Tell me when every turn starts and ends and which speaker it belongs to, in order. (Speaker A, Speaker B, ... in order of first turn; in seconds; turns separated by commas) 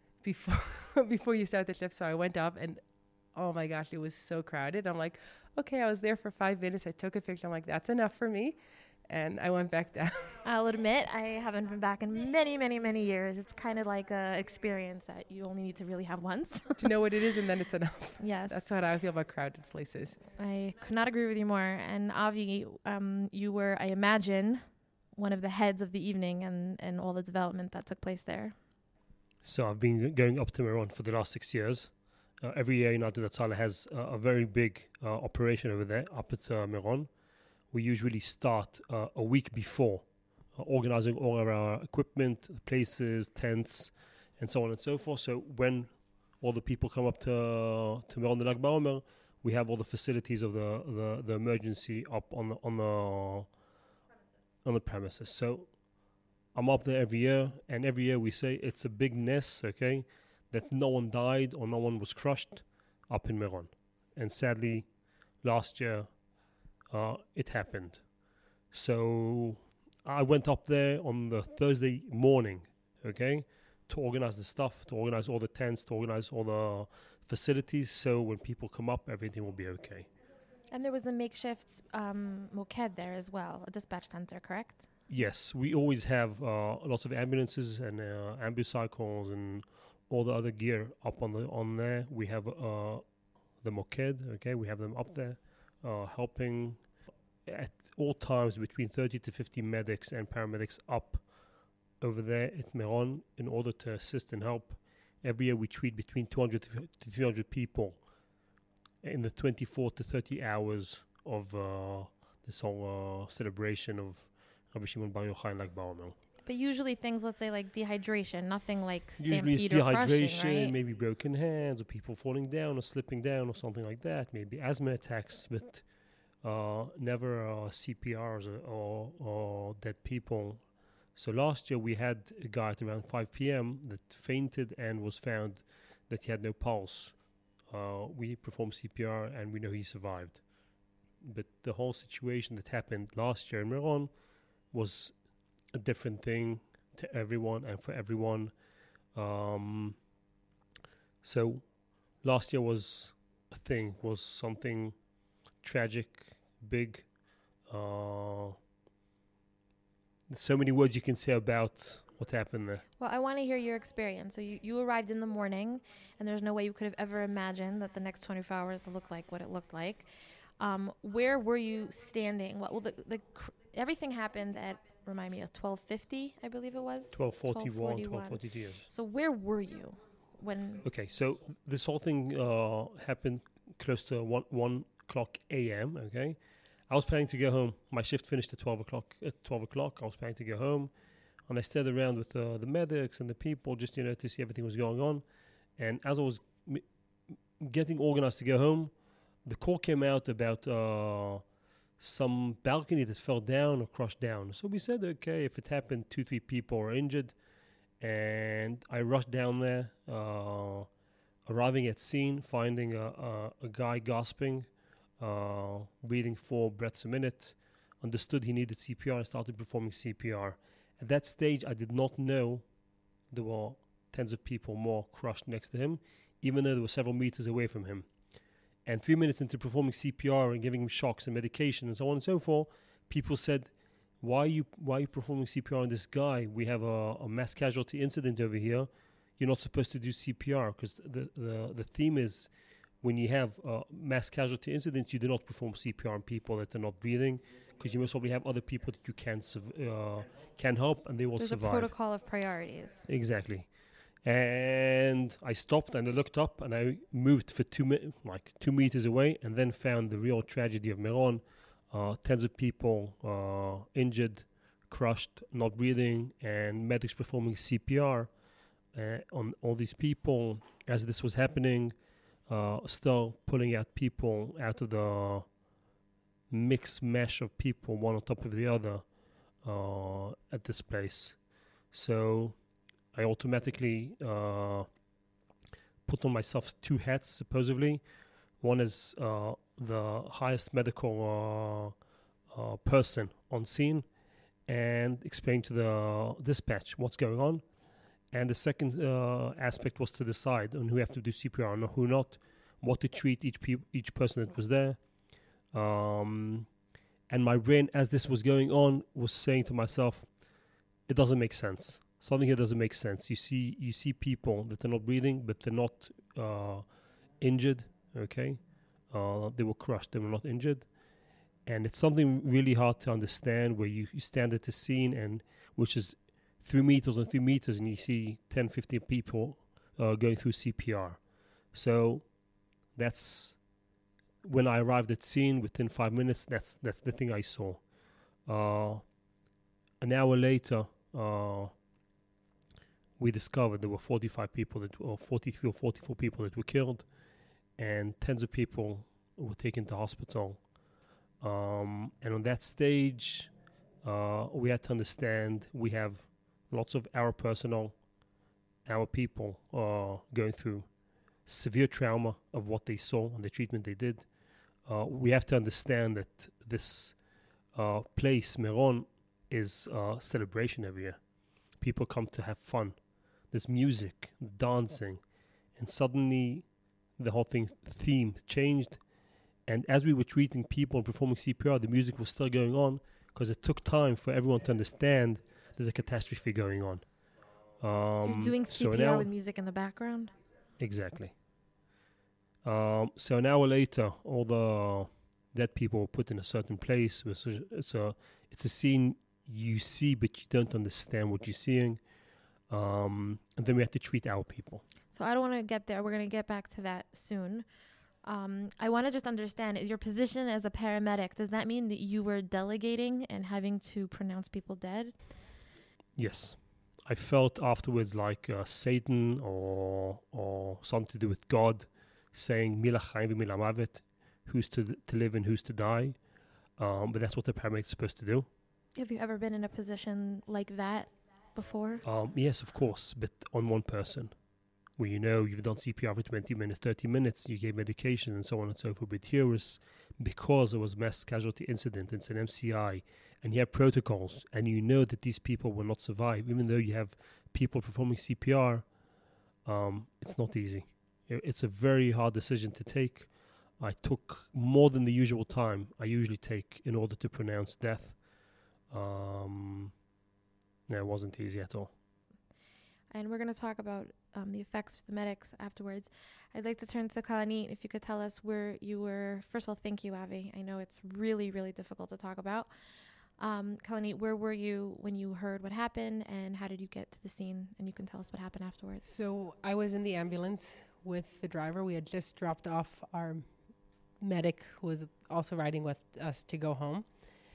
Speaker A: 0.2-2.8, Speaker A: 3.3-8.6, Speaker A: 9.1-10.4, Speaker B: 10.4-16.9, Speaker A: 16.8-20.2, Speaker B: 18.2-18.7, Speaker B: 20.4-28.6, Speaker C: 29.4-37.1, Speaker C: 37.7-53.5, Speaker C: 54.6-55.8, Speaker C: 56.5-64.9, Speaker C: 65.4-66.1, Speaker C: 66.9-68.0, Speaker C: 68.7-80.1, Speaker B: 80.7-84.9, Speaker C: 85.1-93.0, Speaker C: 93.6-96.9, Speaker C: 97.4-101.2, Speaker C: 102.0-108.0, Speaker C: 109.0-116.2, Speaker B: 116.4-120.7, Speaker C: 119.2-125.8, Speaker C: 126.4-137.2, Speaker C: 137.7-140.4, Speaker C: 141.2-144.1, Speaker C: 144.7-145.1, Speaker C: 145.7-148.5, Speaker C: 149.1-150.0, Speaker C: 151.2-154.9, Speaker C: 155.6-157.1, Speaker C: 157.7-158.6, Speaker C: 160.3-162.8, Speaker B: 163.0-180.8, Speaker C: 177.1-178.8, Speaker C: 180.8-190.9, Speaker C: 191.5-195.2, Speaker C: 195.8-196.8, Speaker C: 197.6-198.9, Speaker C: 199.4-201.4, Speaker C: 202.0-207.3, Speaker C: 208.0-210.9, Speaker C: 211.4-214.7, Speaker C: 215.2-222.7, Speaker C: 223.3-228.1, Speaker C: 228.8-251.9, Speaker B: 251.4-253.0, Speaker C: 253.1-253.7, Speaker C: 254.2-268.3, Speaker C: 268.9-271.9, Speaker C: 272.5-275.5, Speaker C: 276.5-279.1, Speaker C: 279.6-281.4, Speaker C: 281.9-282.6, Speaker C: 283.1-284.9, Speaker C: 286.1-288.0, Speaker C: 288.6-291.9, Speaker C: 292.5-294.1, Speaker C: 294.6-297.6, Speaker C: 298.3-305.0, Speaker C: 305.7-306.7, Speaker C: 307.3-310.4, Speaker C: 311.1-316.9, Speaker C: 317.4-320.9, Speaker C: 321.6-331.2, Speaker C: 331.7-332.3, Speaker C: 332.9-333.6, Speaker C: 334.4-337.8, Speaker C: 338.4-339.1, Speaker C: 340.0-341.7, Speaker C: 343.2-347.1, Speaker C: 347.8-350.6, Speaker C: 351.4-358.0, Speaker C: 358.8-360.9, Speaker C: 361.4-364.3, Speaker C: 364.8-367.2, Speaker C: 367.7-371.2, Speaker C: 371.8-373.0, Speaker C: 373.5-375.2, Speaker C: 375.7-379.0, Speaker C: 379.6-387.1, Speaker C: 387.8-389.3, Speaker B: 388.2-390.3, Speaker C: 390.8-391.3, Speaker C: 392.6-402.0, Speaker C: 402.7-404.8, Speaker B: 405.1-407.6, Speaker B: 408.2-415.1, Speaker C: 416.1-426.2, Speaker C: 426.8-428.5, Speaker B: 428.9-432.0, Speaker C: 432.0-434.3, Speaker C: 434.9-448.9, Speaker C: 449.6-458.2, Speaker C: 458.9-459.9, Speaker C: 460.9-461.9, Speaker B: 463.1-472.7, Speaker B: 473.4-479.1, Speaker A: 479.0-483.5, Speaker A: 484.2-487.1